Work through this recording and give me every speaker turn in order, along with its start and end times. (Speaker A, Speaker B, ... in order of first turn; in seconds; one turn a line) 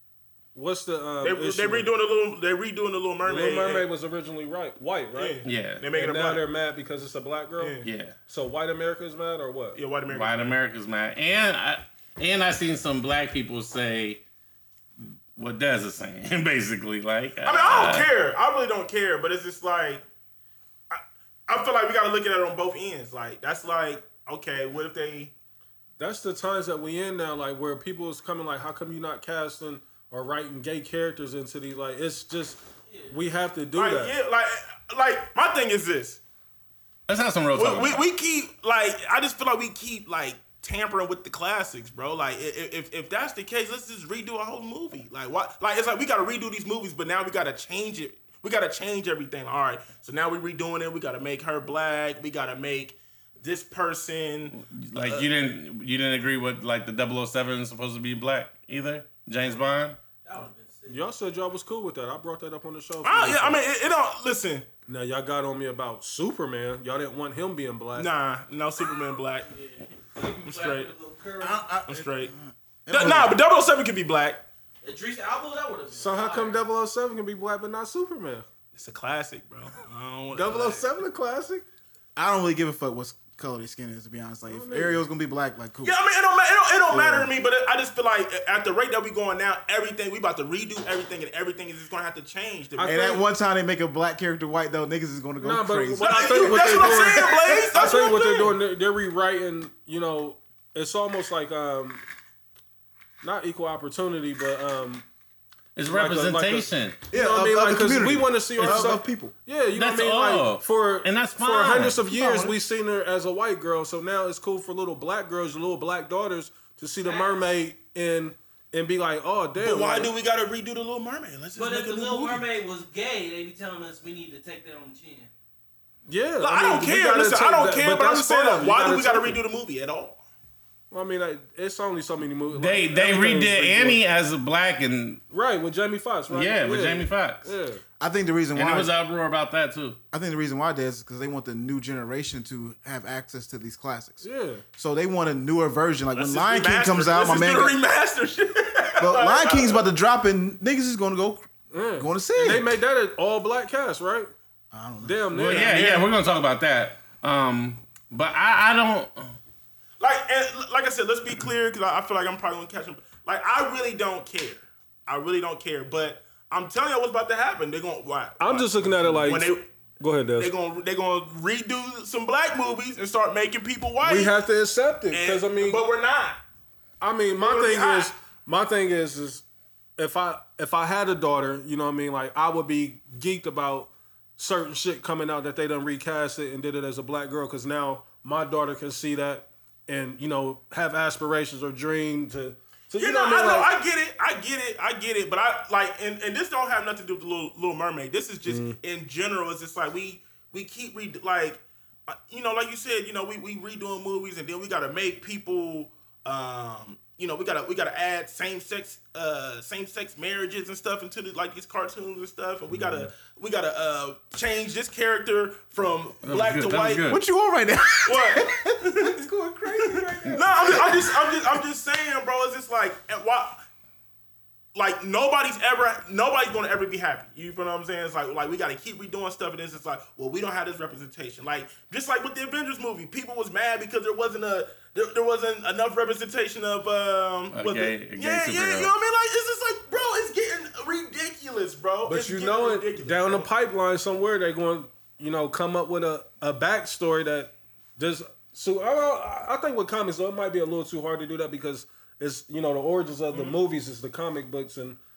Speaker A: 0.5-1.9
Speaker B: 1.2-3.9
Speaker A: 3.2-9.8
Speaker B: 5.1-6.5
Speaker C: 5.4-5.8
Speaker B: 7.6-7.9
Speaker C: 7.8-8.2
Speaker B: 9.7-10.6
Speaker C: 10.1-14.2
Speaker C: 15.0-18.1
Speaker B: 17.4-20.0
Speaker B: 20.9-25.3
Speaker A: 26.0-34.1
Speaker B: 33.7-36.2
Speaker C: 37.1-38.0
Speaker B: 37.5-55.3
Speaker C: 54.5-60.0
Speaker D: 60.2-61.0
Speaker A: 60.9-63.6
Speaker B: 63.0-64.7
Speaker A: 64.9-68.1
Speaker B: 68.0-69.5
Speaker D: 69.4-71.6
Speaker B: 70.4-70.9
Speaker E: 71.4-73.4
Speaker B: 71.9-72.3
Speaker B: 72.9-74.4
Speaker D: 74.8-76.6
Speaker A: 75.9-78.5
Speaker B: 78.7-80.9
Speaker A: 80.3-81.6
Speaker E: 82.2-85.9
Speaker A: 84.5-85.0
Speaker B: 85.8-93.0
Speaker A: 86.9-87.3
Speaker A: 92.8-93.2
Speaker E: 92.8-97.1
Speaker A: 95.4-102.0
Speaker B: 96.0-98.5
Speaker A: 103.2-105.0
Speaker C: 105.8-107.0
Speaker A: 105.9-120.1
Speaker E: 107.1-109.3
Speaker C: 108.6-109.0
Speaker C: 109.7-112.0
Speaker E: 112.0-112.5
Speaker D: 117.0-117.4
Speaker B: 119.6-122.4
Speaker D: 121.5-125.3
Speaker A: 126.1-129.4
Speaker B: 126.4-130.2
Speaker A: 130.9-134.0
Speaker C: 132.5-135.2
Speaker A: 135.3-137.8
Speaker C: 136.3-137.5
Speaker E: 138.0-138.9
Speaker C: 138.5-140.0
Speaker E: 140.1-144.2
Speaker A: 144.2-144.6
Speaker E: 144.8-147.8
Speaker B: 146.1-149.9
Speaker E: 149.0-152.6
Speaker A: 151.7-154.3
Speaker E: 154.7-155.3
Speaker A: 155.0-155.8
Speaker C: 155.3-159.3
Speaker B: 155.5-156.1
Speaker B: 160.0-169.7
Speaker A: 168.4-170.5
Speaker B: 170.4-174.3
Speaker A: 174.0-175.8
Speaker B: 175.1-176.4
Speaker A: 177.0-179.4
Speaker B: 177.4-178.1
Speaker A: 180.0-193.7
Speaker B: 192.9-217.1
Speaker A: 198.5-198.8
Speaker C: 216.2-217.2
Speaker E: 217.1-221.2
Speaker B: 218.1-219.2
Speaker B: 219.8-223.6
Speaker A: 220.0-220.8
Speaker B: 224.7-243.5
Speaker C: 237.5-238.9
Speaker A: 242.1-255.0
Speaker B: 253.3-253.6